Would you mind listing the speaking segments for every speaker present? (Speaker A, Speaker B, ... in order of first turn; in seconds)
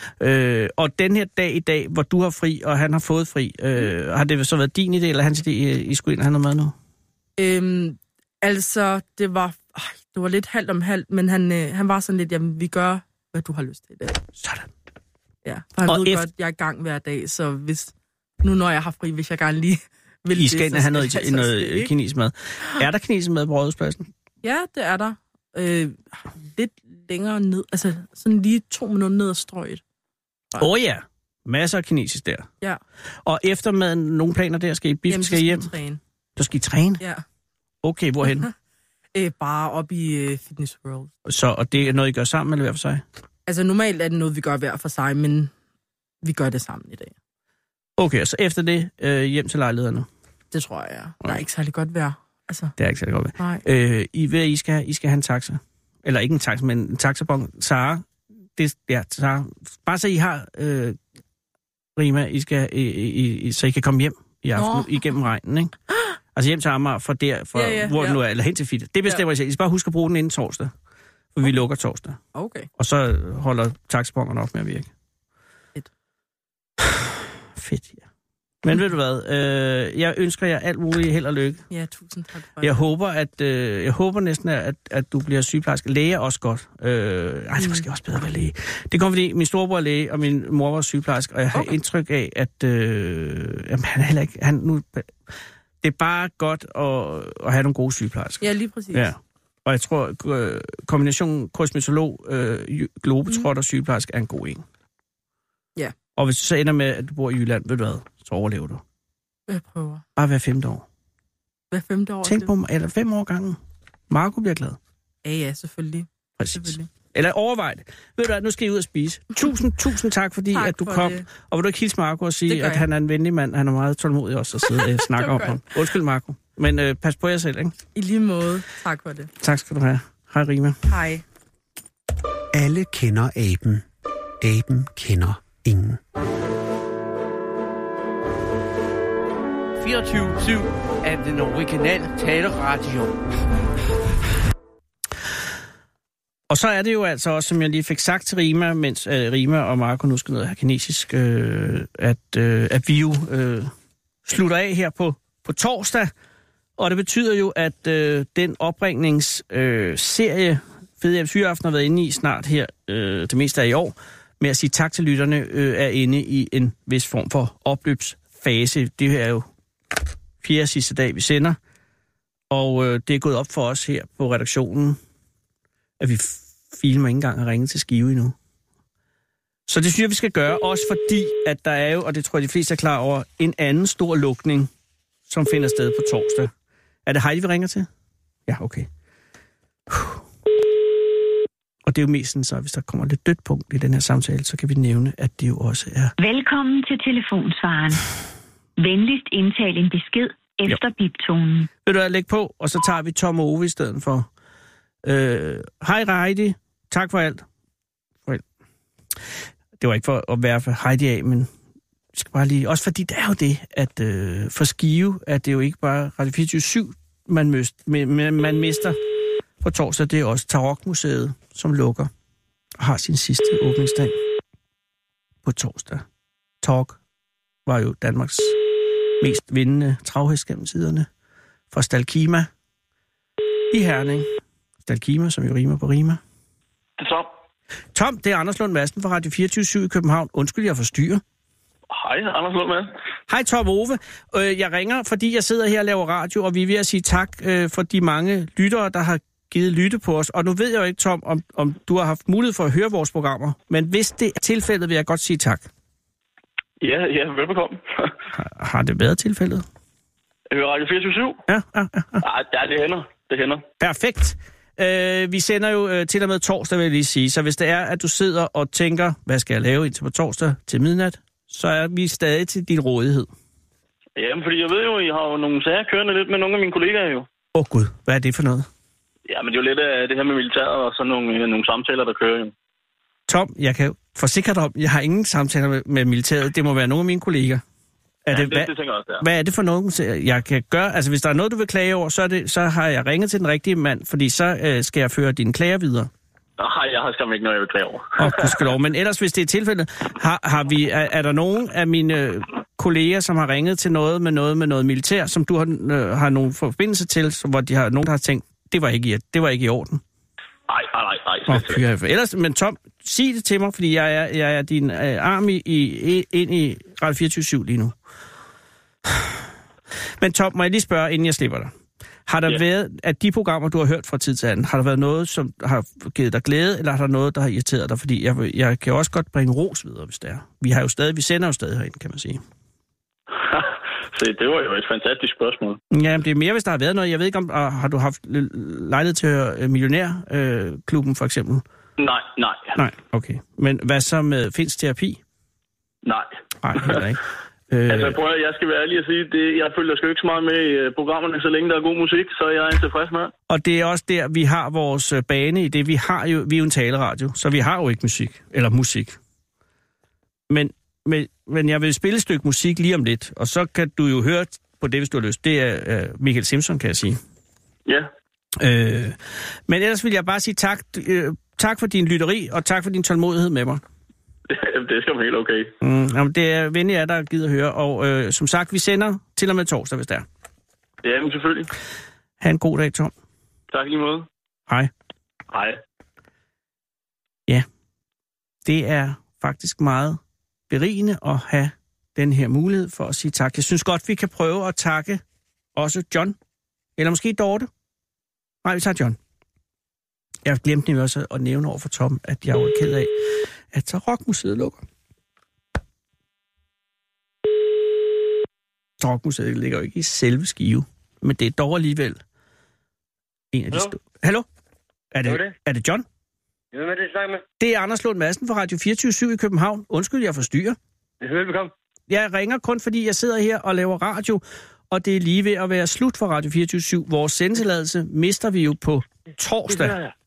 Speaker A: 0.2-6.7, 14.4-14.7, 15.9-16.2, 20.3-24.1, 30.6-32.5, 33.2-35.7, 36.4-37.0, 37.8-38.5, 41.2-43.0, 48.0-50.1, 52.8-58.0, 58.6-61.0, 62.0-65.7, 66.3-70.7, 71.3-72.2, 72.8-74.9, 76.8-78.0, 78.6-81.6, 82.6-95.1, 95.8-104.6, 106.2-108.8, 110.2-110.8, 112.2-113.6, 114.1-114.8, 116.4-127.8, 129.4-130.8, 146.5-153.7, 154.2-156.1, 156.8-169.4, 170.4-171.6, 172.5-175.0, 176.0-178.3, 179.7-184.7, 185.3-186.5, 187.1-187.9, 188.5-188.9, 189.9-190.2, 191.8-196.1, 201.8-204.3, 205.0-207.4, 209.8-211.5, 212.1-219.0, 219.6-222.1, 222.8-224.2, 225.4-226.0, 226.6-227.0, 227.7-228.6, 229.2-231.1, 231.7-232.5, 233.7-234.3, 234.8-236.2, 237.9-241.2, 243.3-255.7, 258.3-259.6, 261.5-262.2, 263.8-273.3, 277.5-278.7, 283.3-287.6, 288.3-296.1, 298.2-310.0, 311.5-317.9, 319.1-319.3, 320.2-321.7, 322.3-332.4, 335.9-341.6, 342.8-345.2, 346.6-348.2, 353.5-359.2, 360.5-367.2, 368.6-369.2, 369.7-373.8, 375.8-380.2, 382.4-383.1, 388.6-390.2, 390.7-395.2, 395.8-396.3, 397.0-397.7, 398.6-399.2, 400.4-404.8, 409.0-412.2, 413.5-414.4, 415.1-416.0, 417.6-420.8, 422.1-429.9
Speaker B: 7.4-14.2, 15.4-21.9, 24.4-29.8, 35.1-36.0, 39.1-41.1, 43.5-45.5, 46.2-47.1, 50.5-52.7, 64.5-65.0, 67.5-68.2, 72.3-72.7, 81.7-82.8, 87.6-87.8, 98.4-99.1, 109.5-110.0, 111.7-112.5, 115.2-116.9, 120.5-121.2, 122.5-122.8, 125.0-125.6, 127.9-129.3, 130.9-131.2
Speaker C: 132.5-133.8, 134.4-136.0
Speaker D: 139.8-143.3
Speaker E: 196.2-198.0, 198.8-201.7
Speaker F: 237.0-237.3, 241.9-242.9, 256.8-258.1, 260.5-261.4, 262.2-263.6, 274.2-277.3, 279.3-282.5, 288.3-289.2, 296.6-298.7, 310.7-311.8, 333.5-335.8, 342.0-342.8, 346.0-347.0, 347.9-353.3, 374.5-375.7, 381.0-381.7, 383.7-384.3, 385.5-385.8
Speaker G: 415.2-415.5, 416.7-417.4, 421.2-421.7, 429.7-430.1